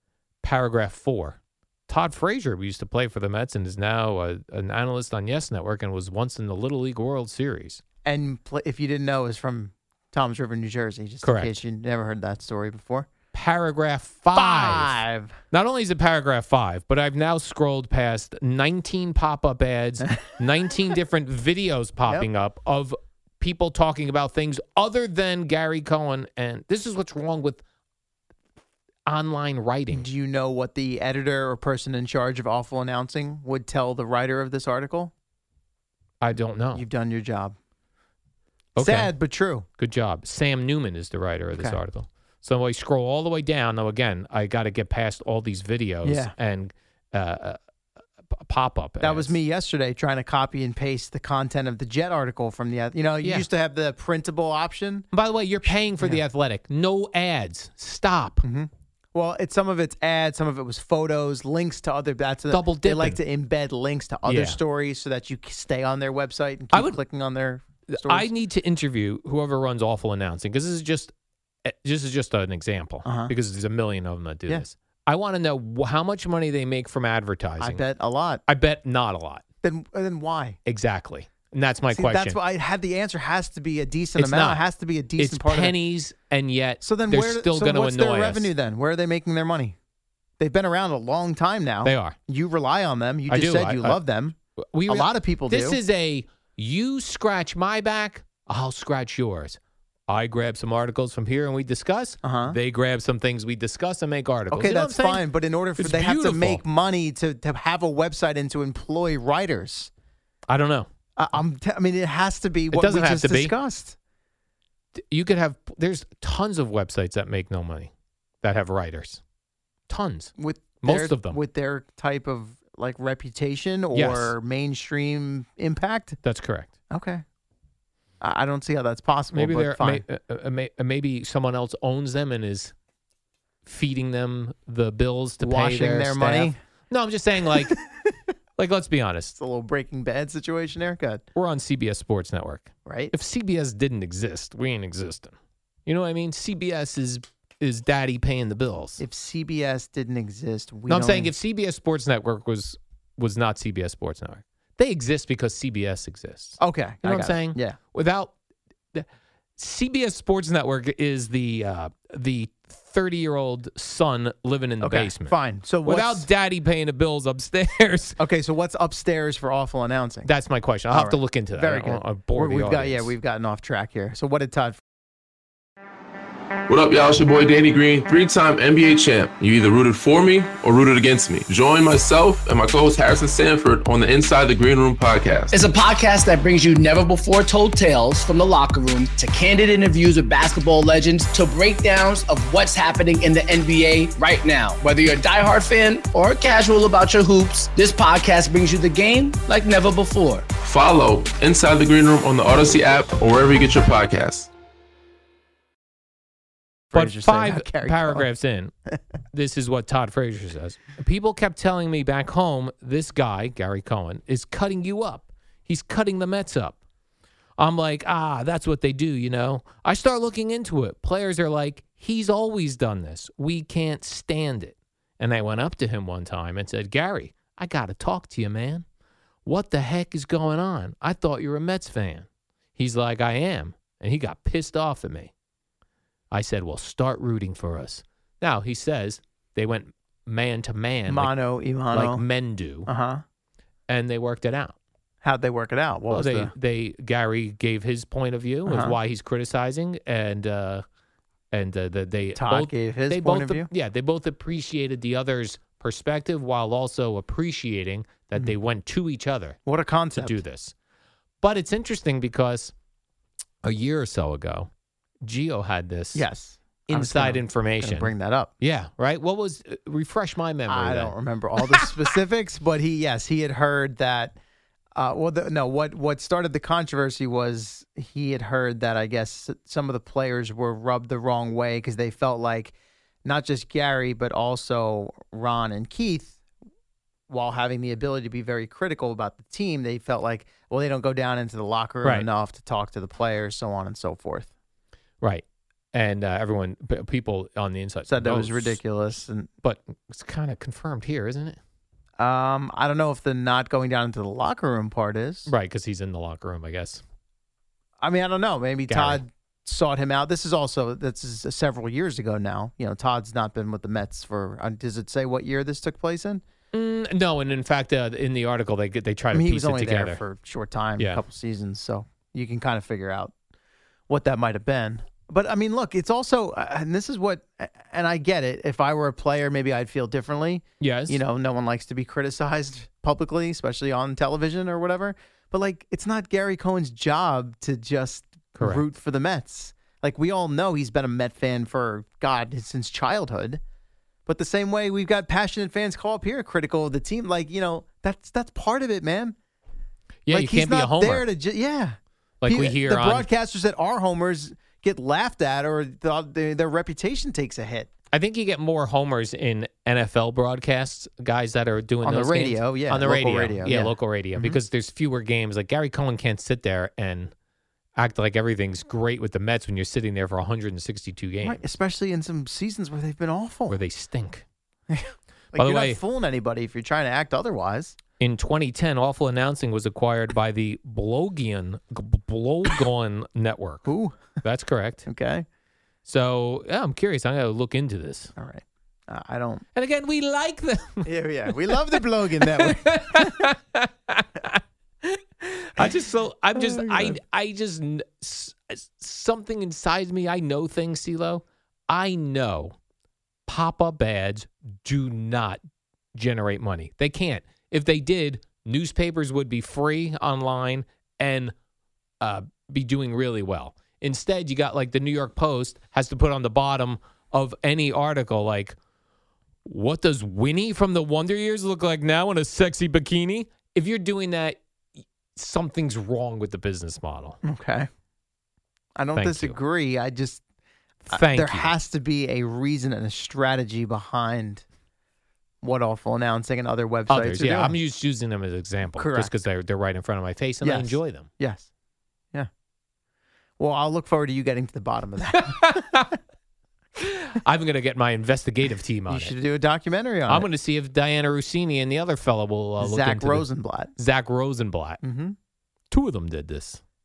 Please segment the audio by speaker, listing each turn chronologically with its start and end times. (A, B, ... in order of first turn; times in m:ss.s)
0:00.4-0:07.8 A
0:08.0-0:13.1 B
0:11.2-0:11.6 A
0:13.3-0:15.0 A
0:14.3-0:15.3 B
0:15.5-0:27.6 A
0:29.0-0:30.1 A
0:29.9-0:35.1 B
0:36.2-0:36.8 A
0:36.7-0:37.5 B
0:38.8-0:39.1 A
0:38.8-0:39.6 B
0:39.8-0:47.6 A
0:41.5-0:41.8 B
0:46.0-0:46.3 B
0:48.3-0:49.3 A
0:49.0-0:55.1 B
0:53.2-0:53.5 A
0:55.1-0:58.4 A
0:58.4-1:08.3 B
1:02.5-1:03.2 A
1:04.2-1:04.6 A
1:06.7-1:07.0 A
1:07.9-1:11.1 A
1:11.6-1:17.8 A
1:13.0-1:13.3 B
1:17.6-1:18.4 B
1:18.4-1:19.4 A
1:19.6-1:20.6 B
1:20.6-1:22.4 A
1:21.9-1:25.8 B
1:24.2-1:24.6 A
1:25.2-1:28.5 A
1:26.8-1:29.8 B
1:30.4-1:34.4 B
1:31.8-1:32.2 A
1:33.3-1:34.0 A
1:34.7-1:45.2 A
1:34.9-1:35.8 B
1:42.2-1:42.6 B
1:44.5-1:49.9 B
1:45.8-1:46.6 A
1:50.5-1:50.9 A
1:51.2-1:54.0 B
1:52.7-1:53.5 A
1:55.1-1:59.2 A
1:59.9-2:01.4 A
2:00.4-2:06.2 B
2:03.9-2:04.3 A
2:06.2-2:06.7 A
2:06.9-2:07.2 B
2:08.2-2:10.0 B
2:09.3-2:12.7 A
2:13.6-2:17.8 A
2:15.4-2:16.6 B
2:17.5-2:17.8 B
2:18.6-2:19.4 A
2:19.4-2:21.2 B
2:21.3-2:25.3 A
2:22.8-2:23.1 B
2:25.8-2:29.0 A
2:29.0-2:31.3 B
2:30.9-2:38.3 A
2:36.6-2:37.8 B
2:39.6-2:48.2 A
2:44.8-2:46.3 B
2:48.2-2:50.3 B
2:50.2-2:53.1 A
2:50.9-2:54.8 B
2:56.7-3:05.6 C
3:05.5-3:20.4 D
3:20.6-3:24.5 C
3:26.9-3:28.3 B
3:26.9-3:28.7 A
3:29.3-3:36.8 A
3:37.6-3:48.8 A
3:49.4-3:55.3 A
3:56.3-4:01.4 A
4:01.0-4:02.2 B
4:01.9-4:02.9 A
4:02.8-4:03.2 B
4:03.9-4:04.8 A
4:05.2-4:06.5 B
4:06.1-4:10.8 A
4:08.6-4:09.0 B
4:11.5-4:19.6 A
4:12.3-4:13.7 B
4:19.6-4:20.4 B
4:20.1-4:20.7 A
4:21.4-4:22.7 A
4:23.6-4:24.7 A
4:25.2-4:26.2 A
4:26.1-4:28.5 B
4:26.9-4:31.2 A
4:30.7-4:34.3 B
4:34.9-4:42.7 B
4:43.2-4:46.4 B
4:47.3-4:54.5 B
4:52.0-4:52.3 A
4:55.2-4:58.8 A
4:58.1-4:59.5 B
4:59.6-5:01.6 A
5:02.2-5:05.5 B
5:05.4-5:07.0 A
5:08.0-5:16.4 B
5:08.9-5:09.2 A
5:16.7-5:20.2 A
5:19.3-5:23.3 B
5:24.1-5:43.6 B
5:30.8-5:31.2 A
5:38.6-5:38.8 A
5:44.2-5:49.4 B
5:50.2-5:51.3 A
5:50.3-5:57.9 B
5:52.4-5:53.3 A
5:58.1-6:07.3 A
6:02.0-6:04.6 B
6:08.0-6:11.6 A
6:11.4-6:13.8 B
6:13.7-6:14.4 A
6:14.9-6:18.0 B
6:15.6-6:16.0 A
6:18.2-6:23.9 A
6:23.8-6:24.4 B
6:24.4-6:25.0 A
6:25.0-6:25.4 B
6:26.0-6:28.3 A
6:28.4-6:29.6 B
6:29.7-6:42.7 A
6:31.0-6:33.5 B
6:36.5-6:37.2 B
6:43.5-6:45.6 A
6:46.1-6:51.5 A
6:52.2-6:58.8 A
6:59.6-7:04.6 A
7:05.3-7:07.4 A
7:07.4-7:07.9 B
7:09.0-7:10.4 B
7:09.2-7:09.6 A
7:11.1-7:11.8 A
7:11.1-7:14.6 B
7:15.6-7:17.8 B
7:17.1-7:21.3 A
7:19.0-7:19.3 B
7:20.6-7:21.7 B
7:23.6-7:25.8 B
7:25.4-7:26.1 A
7:27.0-7:29.3 A
7:29.1-7:30.5 B
7:30.3-7:35.0 A
7:32.8-7:33.9 B
7:35.0-7:35.4 B
7:35.9-7:36.8 A